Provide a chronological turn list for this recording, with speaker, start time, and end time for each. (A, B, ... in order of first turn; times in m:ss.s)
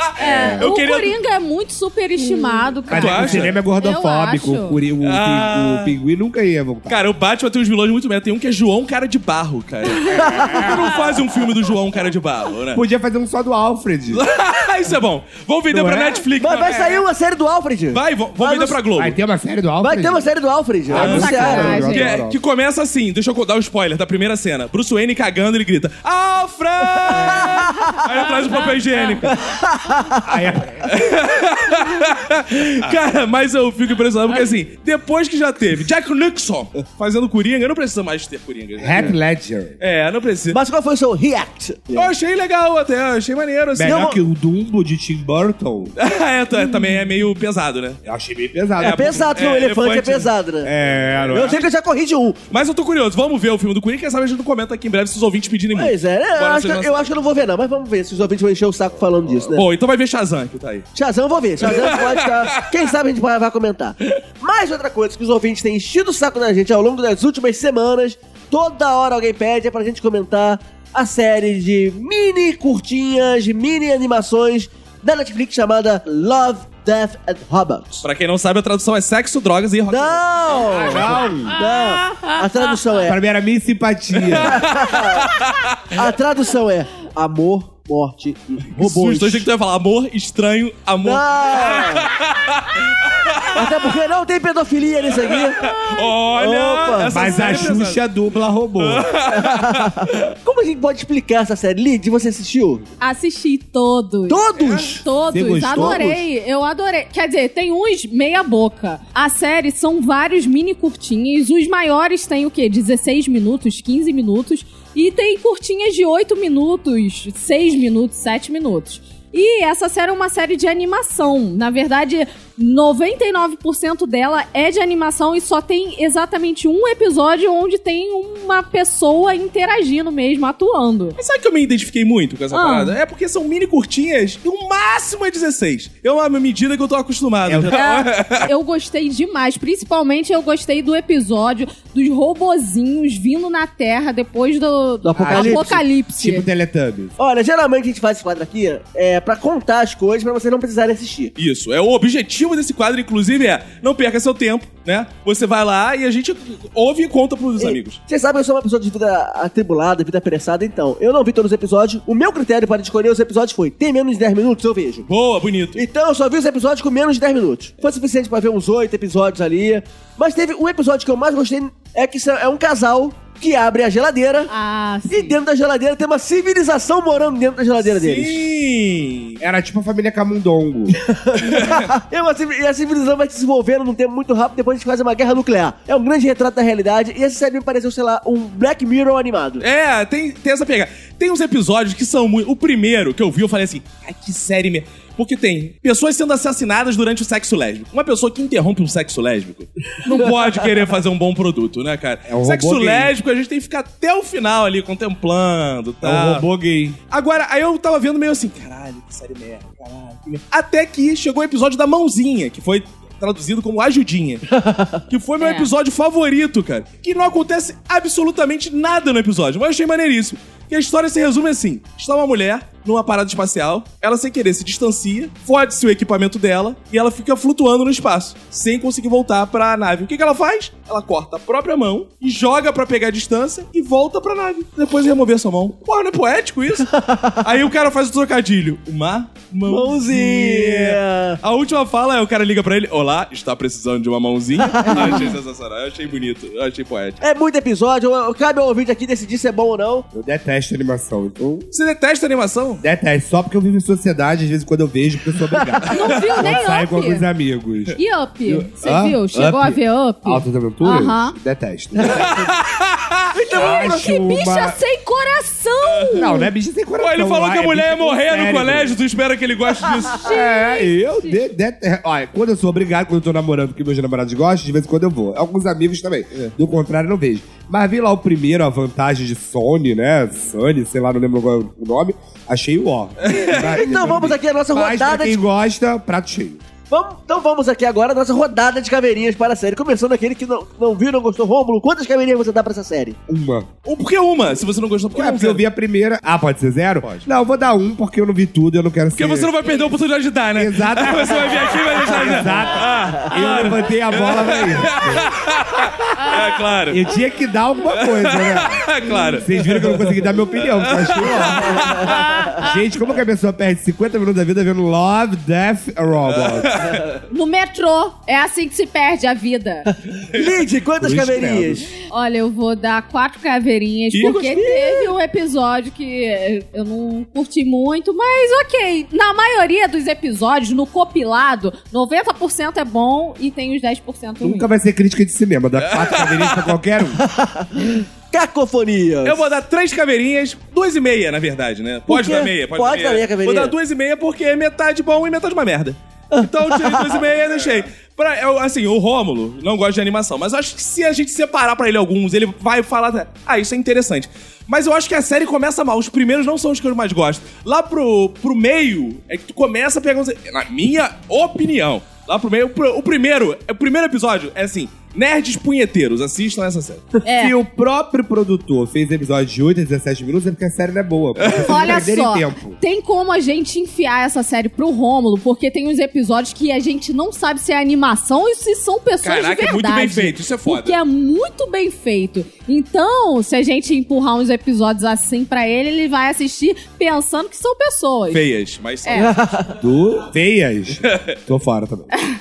0:00.2-0:00.7 A
0:00.2-0:04.8 B
0:00.6-0:01.2 C
0:02.9-0:07.0 A
0:02.9-0:03.6 C
0:05.0-0:06.0 C
0:06.9-0:12.8 C
0:10.1-0:10.9 A
0:10.1-0:10.6 D
0:12.7-0:14.2 A
0:14.1-0:17.0 C
0:15.7-0:16.2 A
0:16.4-0:18.8 D
0:17.9-0:19.2 C
0:19.0-0:20.3 A
0:19.8-0:21.8 D
0:20.9-0:22.4 A
0:20.9-0:29.4 C
0:21.0-0:22.2 B
0:27.1-0:27.6 A
0:27.4-0:28.0 D
0:29.2-0:30.4 D
0:30.2-0:31.0 A
0:30.8-0:39.2 C
0:38.8-0:39.8 A
0:39.8-0:40.6 C
0:40.5-0:42.1 D
0:42.0-0:44.1 C
0:43.8-0:46.0 A
0:43.9-0:44.2 D
0:46.0-0:48.0 C
0:48.0-0:49.3 A
0:48.8-0:50.7 D
0:48.8-0:50.3 C
0:50.6-0:51.6 A
0:51.2-0:51.7 C
0:51.3-0:52.4 D
0:52.5-0:57.1 C
0:55.8-0:59.6 D
0:59.5-1:00.9 C
1:01.0-1:18.1 D
1:01.6-1:02.5 C
1:18.0-1:21.1 C
1:19.9-1:23.2 D
1:20.7-1:21.6 A
1:23.1-1:24.6 A
1:24.2-1:25.9 C
1:24.5-1:25.4 D
1:25.9-1:29.5 D
1:28.7-1:33.8 C
1:31.0-1:32.1 D
1:33.5-1:35.7 D
1:35.2-1:38.0 C
1:36.3-1:37.4 D
1:37.1-1:39.1 A
1:38.8-1:39.9 C
1:39.3-1:42.8 D
1:43.0-2:11.2 B
1:44.3-1:45.0 D
1:44.6-1:44.9 C
1:45.3-1:46.2 A
2:11.2-2:18.5 C
2:12.5-2:13.0 B
2:17.5-2:17.8 A
2:17.7-2:26.5 B
2:25.0-2:25.8 D
2:25.2-2:27.2 A
2:27.2-2:31.3 D
2:31.4-2:38.0 C
2:37.6-2:45.1 D
2:45.1-2:45.8 C
2:45.8-2:54.5 D
2:54.5-2:55.4 B
2:55.1-2:58.4 D
2:57.8-2:59.4 C
2:59.4-3:01.0 A
3:01.0-3:09.6 D
3:01.4-3:01.9 C
3:09.6-3:26.5 C
3:20.0-3:20.4 B
3:22.3-3:23.1 A
3:26.0-3:27.0 A
3:27.1-3:34.5 C
3:34.6-3:35.0 D
3:35.1-4:07.2 C
3:35.4-3:35.7 B
3:56.9-3:57.4 D
3:59.7-4:01.4 D
4:04.7-4:05.3 D
4:07.2-4:10.1 D
4:10.1-4:11.7 A
4:11.7-4:12.8 C
4:12.8-4:22.5 A
4:15.9-4:17.2 B
4:16.0-4:16.4 C
4:18.0-4:21.4 B
4:22.0-4:22.3 D
4:22.1-4:23.3 C
4:23.3-4:24.0 D
4:23.6-4:24.8 A
4:23.6-4:26.5 B
4:25.8-4:26.3 C
4:26.2-4:29.0 A
4:27.0-4:30.3 C
4:29.9-4:31.4 B
4:30.2-4:46.6 A
4:43.2-4:43.8 C
4:43.7-4:45.4 D
4:46.9-4:53.2 D
4:53.3-4:53.7 A
4:53.8-4:55.6 C
4:55.2-4:59.5 A
4:57.0-4:57.3 C
4:59.2-5:07.1 C
5:00.6-5:05.3 A
5:06.9-5:16.9 A
5:07.9-5:12.7 C
5:11.6-5:12.6 D
5:16.4-5:17.2 C
5:17.3-5:19.9 B
5:20.2-5:21.9 D
5:21.0-5:21.9 A
5:22.1-5:34.7 B
5:24.1-5:25.0 C
5:34.4-5:37.2 A
5:35.8-5:36.7 C
5:37.2-5:39.5 D
5:39.2-6:07.1 C
5:42.1-5:43.7 D
5:46.3-5:47.2 D
6:07.2-6:07.6 B
6:07.4-6:12.8 A
6:11.4-6:11.7 C
6:11.6-6:28.4 B
6:19.2-6:21.0 C
6:28.3-6:29.4 C
6:29.0-6:29.4 B
6:29.1-6:29.8 D
6:29.8-6:32.1 A
6:31.0-6:31.4 C